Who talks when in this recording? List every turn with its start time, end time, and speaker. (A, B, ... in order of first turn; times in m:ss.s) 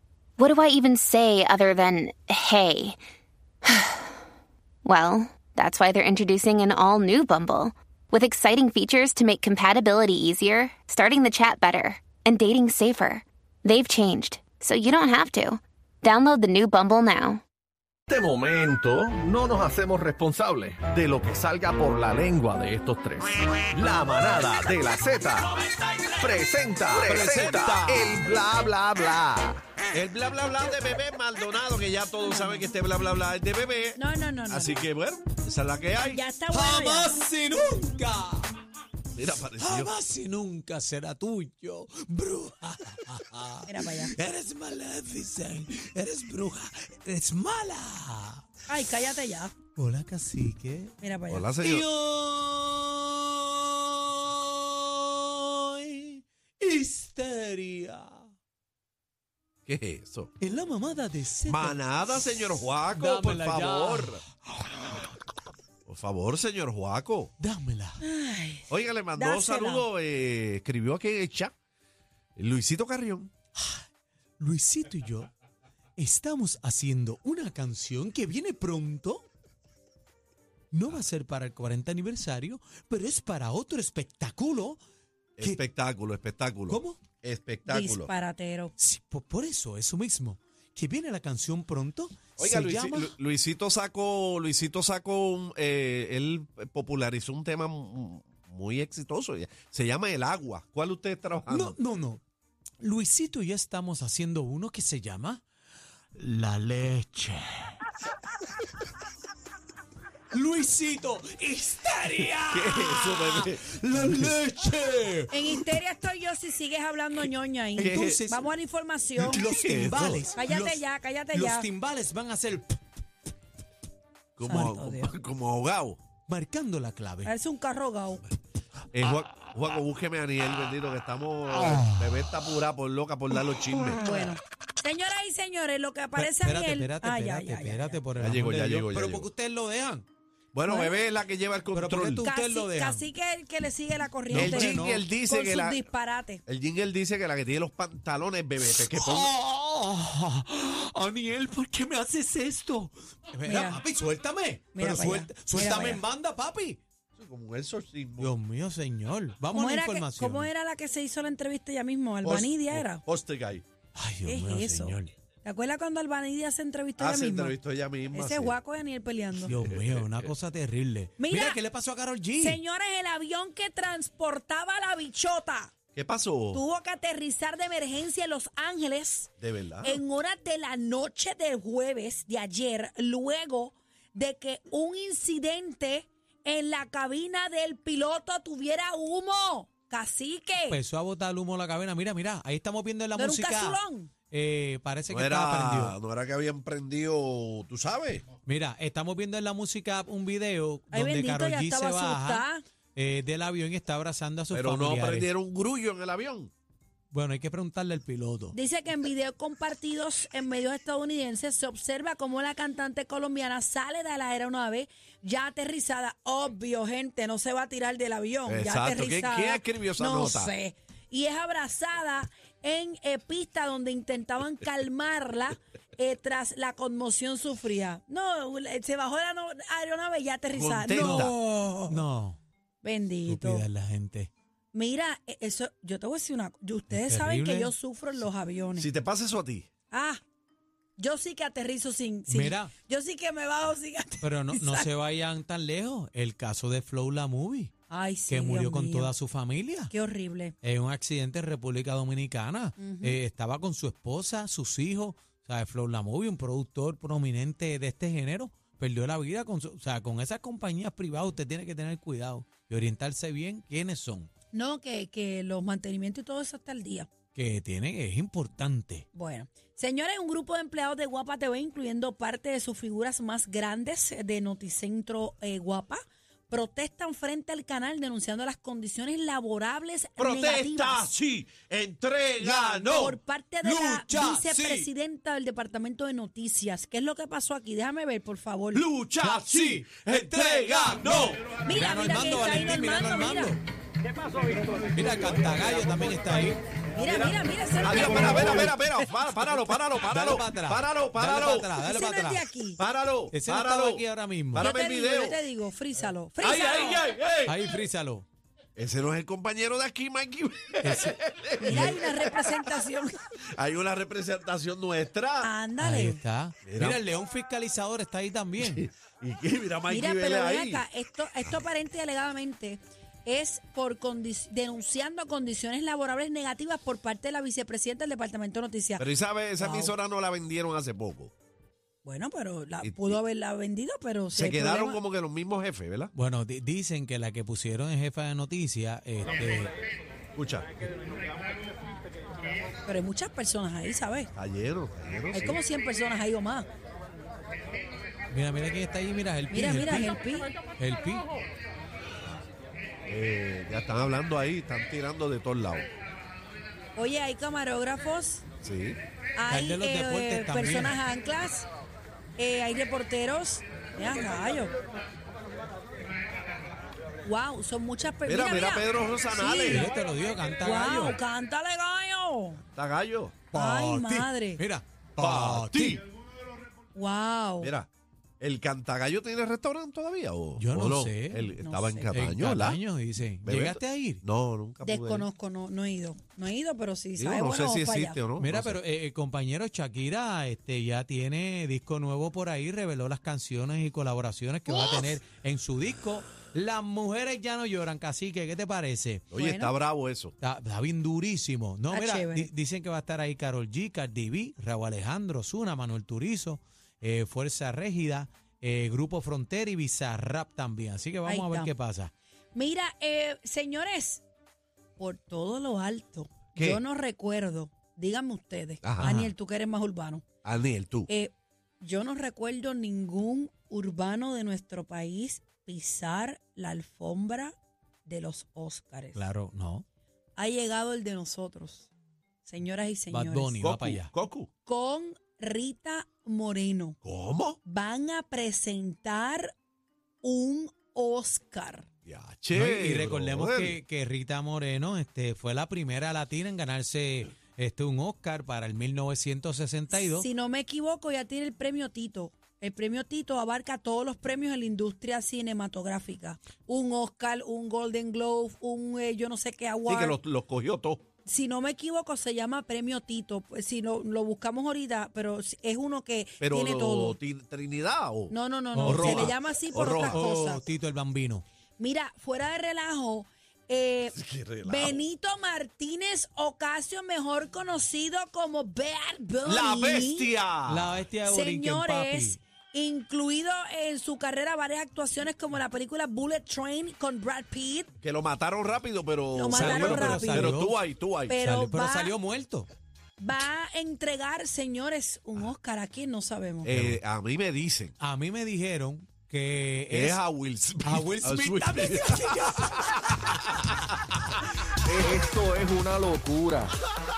0:00.4-0:03.0 A
0:03.6-0:04.1 A
0:04.8-0:17.4 A
0:18.1-0:29.6 B
0:26.9-0:28.1 C
0:29.9-0:36.2 C
0:32.3-0:32.7 D
0:34.0-0:34.8 D
0:36.0-0:37.2 D
0:36.5-0:38.5 E
0:39.2-0:39.9 C
0:39.6-0:48.5 E
0:43.7-0:44.1 D
0:48.7-0:49.5 D
0:49.8-0:50.9 E
0:51.0-0:51.5 D
0:51.3-0:51.9 C
0:51.6-0:58.3 E
0:59.7-1:00.3 C
1:00.4-1:04.2 E
1:01.5-1:04.2 C
1:05.9-1:07.3 C
1:07.4-1:08.0 E
1:08.0-1:09.9 D
1:08.7-1:11.5 C
1:12.4-1:13.3 C
1:13.6-1:13.8 E
1:14.4-1:15.3 E
1:16.0-1:19.2 E
1:20.7-1:24.8 E
1:25.4-1:28.1 C
1:26.7-1:27.0 E
1:27.7-1:28.8 D
1:28.8-1:33.2 E
1:32.4-1:41.8 C
1:41.5-1:42.2 E
1:42.8-1:45.4 E
1:46.2-1:47.8 E
1:50.3-1:55.6 E
1:52.5-1:54.4 C
1:55.3-1:59.4 D
1:57.8-1:58.5 E
1:57.8-1:58.2 C
1:59.2-2:00.3 C
1:59.2-2:00.8 E
2:00.4-2:01.7 D
2:01.3-2:02.8 E
2:04.4-2:06.0 C
2:04.4-2:05.1 D
2:04.5-2:04.8 E
2:06.3-2:07.3 E
2:07.2-2:08.3 D
2:08.9-2:14.0 C
2:14.0-2:18.0 D
2:16.2-2:20.1 E
2:18.2-2:19.3 C
2:20.5-2:22.2 C
2:20.7-2:20.9 D
2:21.7-2:23.1 E
2:22.2-2:26.4 D
2:24.3-2:25.0 E
2:24.3-2:25.8 C
2:26.5-2:29.3 C
2:28.7-2:36.8 E
2:33.4-2:33.8 D
2:34.8-2:36.0 D
2:37.2-2:38.3 C
2:38.2-2:40.5 E
2:39.5-2:43.0 D
2:42.2-2:43.6 C
2:44.0-2:45.1 E
2:44.3-2:47.6 D
2:47.0-2:48.6 C
2:48.1-2:49.6 D
2:49.5-2:52.6 E
2:49.5-2:50.3 C
2:51.2-2:51.6 D
2:52.4-2:55.7 D
2:55.9-2:56.6 C
2:56.5-3:10.8 D
2:59.4-3:00.0 C
3:10.7-3:16.0 E
3:13.2-3:14.1 D
3:15.1-3:18.2 C
3:18.5-3:25.3 E
3:20.9-3:22.6 D
3:24.5-3:26.5 C
3:27.1-3:28.6 E
3:28.5-3:52.0 D
3:38.5-3:40.5 C
3:50.5-3:51.3 C
3:51.0-3:51.3 E
3:51.9-3:52.4 E
3:52.8-3:53.7 D
3:53.3-3:54.3 E
3:54.7-3:58.9 D
3:56.9-3:57.7 E
3:58.8-3:59.7 C
3:59.9-4:00.2 D
4:01.0-4:04.9 D
4:02.3-4:02.7 E
4:04.2-4:07.7 E
4:07.9-4:09.1 D
4:08.3-4:09.9 E
4:09.9-4:10.6 D
4:10.6-4:24.3 E
4:12.8-4:13.2 D
4:24.5-4:27.1 D
4:27.4-4:29.0 E
4:29.1-4:41.1 D
4:40.2-4:43.2 C
4:42.4-4:48.9 D
4:43.6-4:44.9 E
4:48.7-4:51.5 C
4:49.2-4:53.6 E
4:51.6-4:53.6 D
4:54.9-4:56.6 E
4:56.9-4:59.1 D
4:57.8-5:01.7 C
5:00.1-5:02.4 E
5:01.8-5:02.8 D
5:02.8-5:05.4 C
5:03.3-5:04.7 E
5:04.6-5:07.0 D
5:06.4-5:07.6 C
5:07.4-5:08.3 E
5:08.8-5:12.7 C
5:10.8-5:11.2 E
5:11.6-5:13.2 D
5:13.5-5:15.5 C
5:15.4-5:16.2 D
5:15.8-5:18.8 E
5:16.6-5:17.0 C
5:18.6-5:20.8 C
5:19.9-5:29.1 D
5:29.0-5:31.3 C
5:29.6-5:30.0 D
5:32.0-5:35.0 D
5:32.8-5:33.2 C
5:34.3-5:36.1 C
5:36.2-5:39.7 E
5:40.4-5:40.7 C
5:42.9-5:44.3 D
5:44.4-5:45.6 C
5:45.3-5:46.7 D
5:48.3-5:50.1 E
5:49.5-5:50.5 D
5:50.8-5:51.2 E
5:53.1-5:55.9 C
5:57.0-5:58.4 D
5:58.6-5:59.0 C
5:59.4-6:01.7 D
5:59.5-6:01.0 E
6:02.4-6:04.7 D
6:07.2-6:09.9 D
6:08.3-6:09.8 C
6:09.7-6:11.2 E
6:10.6-6:12.6 D
6:12.7-6:13.4 C
6:13.5-6:14.6 D
6:13.5-6:16.0 E
6:15.2-6:16.0 C
6:17.0-6:17.7 D
6:17.6-6:17.9 C
6:18.4-6:22.8 C
6:20.6-6:21.5 E
6:21.6-6:22.1 D
6:22.1-6:24.2 E
6:23.4-6:25.3 C
6:24.8-6:28.2 D
6:27.2-6:28.8 C
6:28.4-6:39.3 E
6:34.7-6:35.2 D
6:39.3-6:40.3 C
6:39.4-6:39.7 D
6:40.4-6:52.1 E
6:41.9-6:42.5 D
6:51.3-6:51.7 D
6:52.5-6:54.2 D
6:55.0-7:00.2 D
6:56.6-6:56.8 C
6:58.8-6:59.1 C
6:59.0-6:59.3 E
7:00.4-7:01.1 C
7:01.1-7:09.2 D
7:09.2-7:09.8 E
7:10.4-7:11.9 D
7:12.4-7:13.6 D
7:13.1-7:14.1 E
7:13.6-7:14.5 C
7:14.6-7:17.0 D
7:17.0-7:17.6 C
7:17.6-7:19.5 D
7:20.2-7:21.9 D
7:22.1-7:23.8 C
7:22.5-7:30.3 E
7:29.9-7:40.2 D
7:39.9-7:41.0 C
7:41.2-7:47.2 D
7:46.4-7:50.3 C
7:48.3-7:50.6 D
7:48.7-7:49.4 E
7:50.0-7:51.4 E
7:51.8-8:00.3 D
7:54.1-7:55.0 C
7:59.4-8:01.0 C
8:00.7-8:02.4 E
8:01.2-8:07.9 D
8:08.0-8:11.4 C
8:09.3-8:10.5 D
8:09.5-8:10.8 E
8:11.3-8:12.2 D
8:11.4-8:12.7 E
8:13.2-8:16.7 D
8:16.6-8:17.9 C
8:16.6-8:17.0 E
8:18.0-8:20.2 E
8:19.9-8:22.8 C
8:20.8-8:23.1 E
8:24.8-8:26.8 B